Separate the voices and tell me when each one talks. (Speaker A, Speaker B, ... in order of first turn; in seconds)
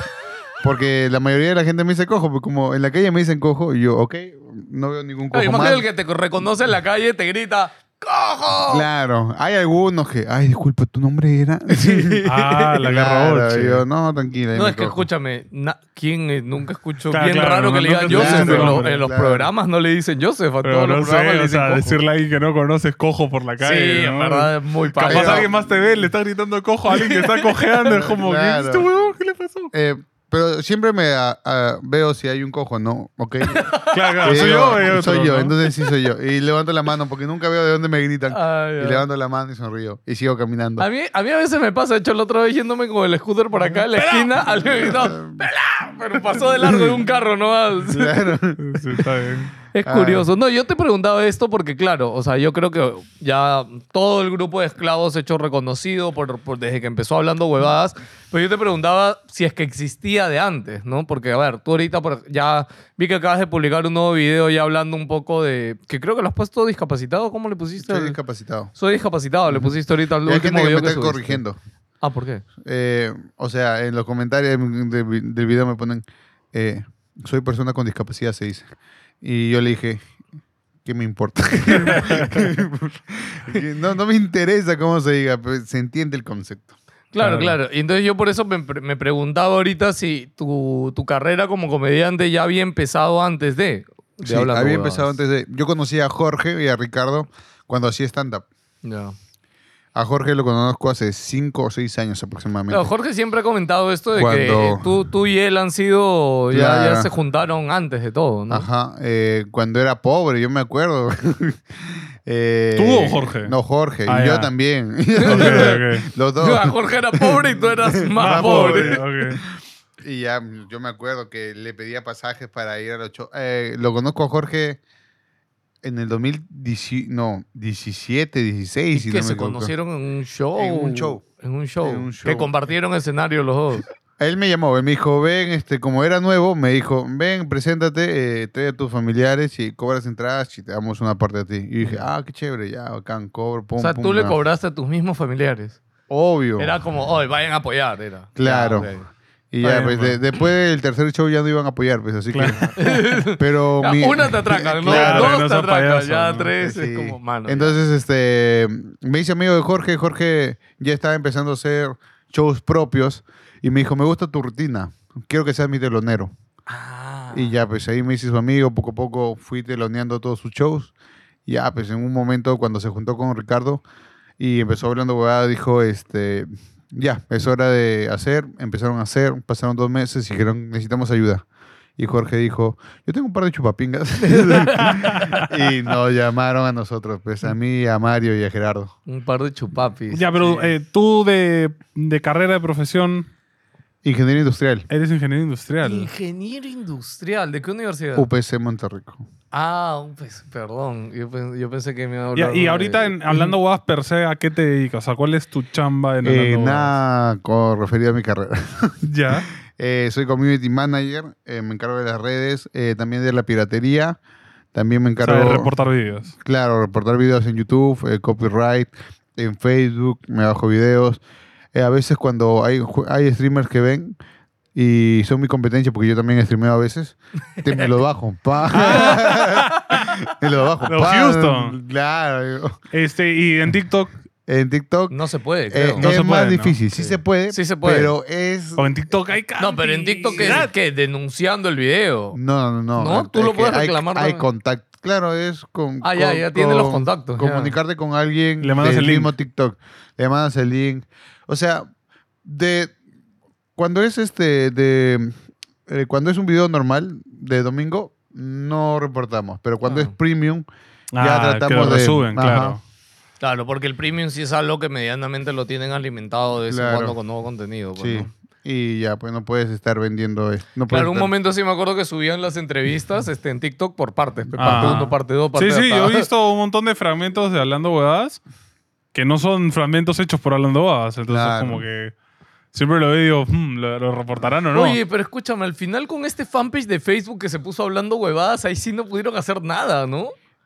Speaker A: 0.6-5.8, 8.7-12.2, 12.8-15.1, 18.1-19.5, 25.0-25.8, 27.9-29.1, 29.7-33.7, 34.2-40.9, 44.6-45.4, 47.9-49.0, 49.9-50.3, 67.8-68.7, 69.5-71.6, 72.6-78.7, 79.2-80.0, 80.8-86.7, 94.2-98.5, 100.0-102.9, 104.1-105.1, 106.5-107.1, 108.5-119.5, 120.0-124.8, 125.8-129.7, 130.6-131.2, 131.8-132.5, 134.2-144.4, 146.1-146.7, 148.4-148.9, 149.5-155.4, 156.6-166.3, 167.3-170.9, 171.5-173.8, 174.4-181.4, 182.0-188.9, 194.0-194.9, 198.2-199.2, 206.2-209.0, 209.8-214.2, 214.7-215.7, 216.4-221.2, 221.7-224.2, 224.8-232.8, 234.5-235.2, 235.7-239.0, 240.4-240.7, 242.3-251.9, 252.4-252.9, 253.8-255.3, 255.9-260.7, 261.2-262.8, 266.7-267.2, 268.0-271.3, 274.5-275.1, 281.3-281.9
Speaker B: 5.3-8.9, 11.7-12.5, 14.5-22.0, 23.6-25.5, 27.1-27.8, 33.5-34.5, 38.3-39.0, 40.8-48.1, 49.7-68.2, 68.8-71.4, 72.0-72.4, 87.1-95.1, 98.8-99.2, 102.7-108.7, 115.2-115.8, 116.4-119.0, 128.9-133.9, 143.8-145.8, 146.6-149.1, 152.8-157.8, 166.7-167.6, 184.3-184.9, 189.1-190.7, 195.8-198.3, 199.5-203.2, 235.1-236.1, 236.9-238.1, 239.6-242.4, 243.0-244.4, 246.0-247.8, 259.8-260.1, 263.4-268.3, 270.9-276.3, 284.7-290.3
Speaker C: 12.2-13.8, 17.1-18.9, 20.6-24.5, 25.0-29.7, 33.9-35.5, 44.0-44.8, 48.6-49.5, 81.9-82.5, 87.2-87.6, 112.8-113.5, 114.1-114.5, 115.2-116.1, 118.2-119.4, 149.7-150.2, 152.3-153.0, 154.8-156.5, 184.8-185.5, 190.1-193.3, 194.9-196.1, 202.3-206.9, 209.0-209.5, 215.2-216.3, 228.7-230.2, 230.9-231.8, 232.9-234.2, 236.0-236.8, 238.8-240.7, 248.6-249.3, 261.1-262.8, 274.6-275.0, 275.5-278.4, 279.1-282.1, 282.7-285.0